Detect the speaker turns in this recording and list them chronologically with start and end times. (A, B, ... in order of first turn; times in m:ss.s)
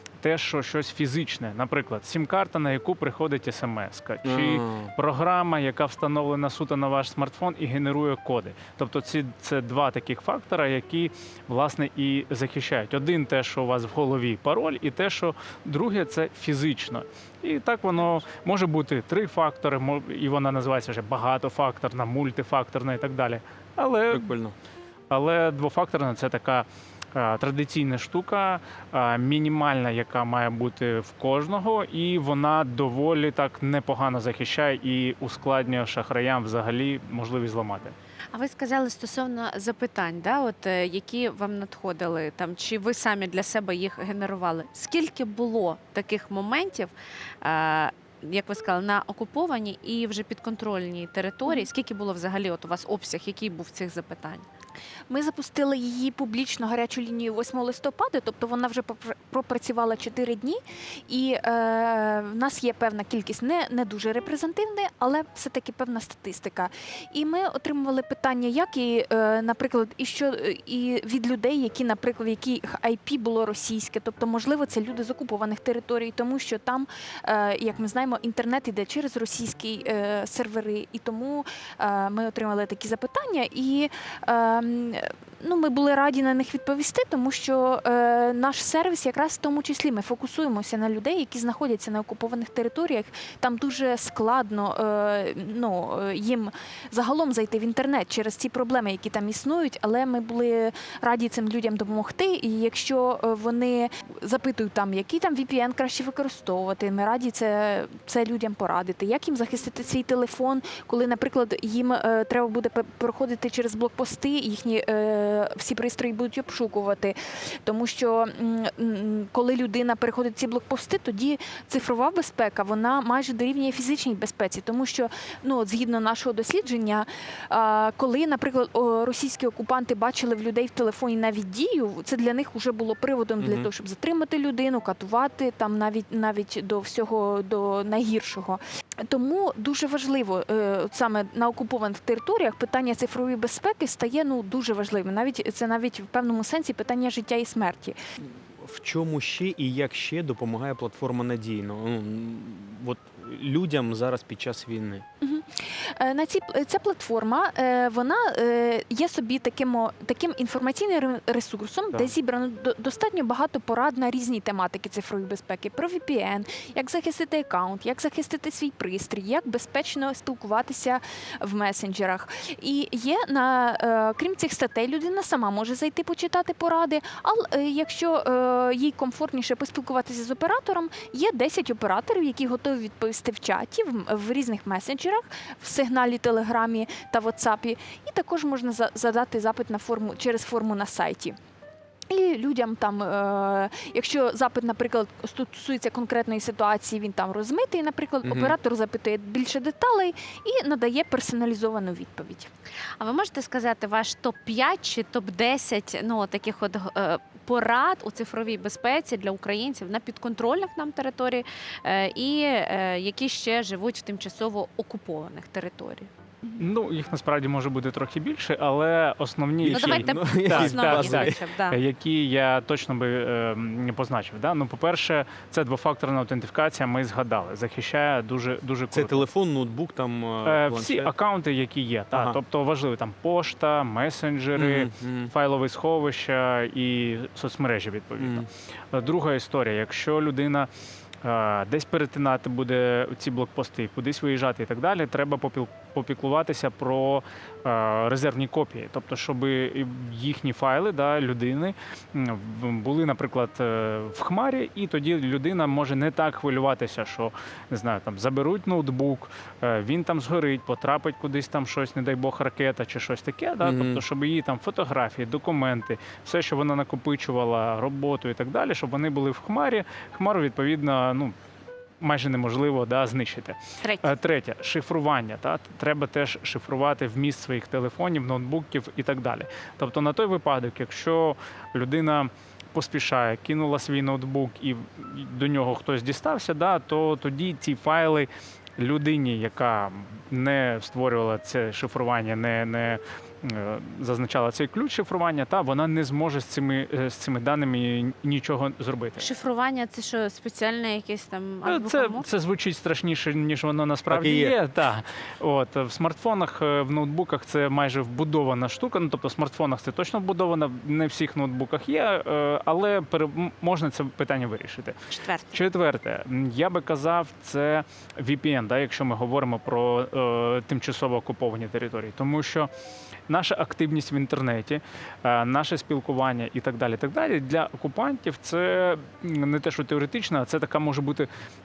0:00.2-0:24.3 A
0:04.2-0:04.9 B
0:24.1-0:24.5 B
0:25.1-0:37.9 A
0:38.3-0:54.5 C
0:55.1-2:28.0 D
2:13.4-2:13.7 B
2:28.2-2:35.0 B
2:35.2-3:11.4 D
3:12.1-3:22.5 D
3:18.2-3:18.6 B
3:23.0-3:36.1 C
3:36.4-3:49.3 A
3:39.6-3:41.4 B
3:39.7-3:41.8 C
3:48.9-3:51.1 B
3:50.4-4:00.7 A
3:52.1-3:52.4 B
3:54.6-3:55.3 B
3:58.2-3:58.5 B
4:01.2-4:31.3 A
4:23.6-4:24.0 B
4:32.0-4:59.3 A
4:33.8-4:34.1 C
4:59.2-5:02.3 C
5:01.6-5:15.0 A
5:04.1-5:04.5 B
5:15.1-5:15.6 C
5:15.5-5:22.7 A
5:23.3-5:31.3 A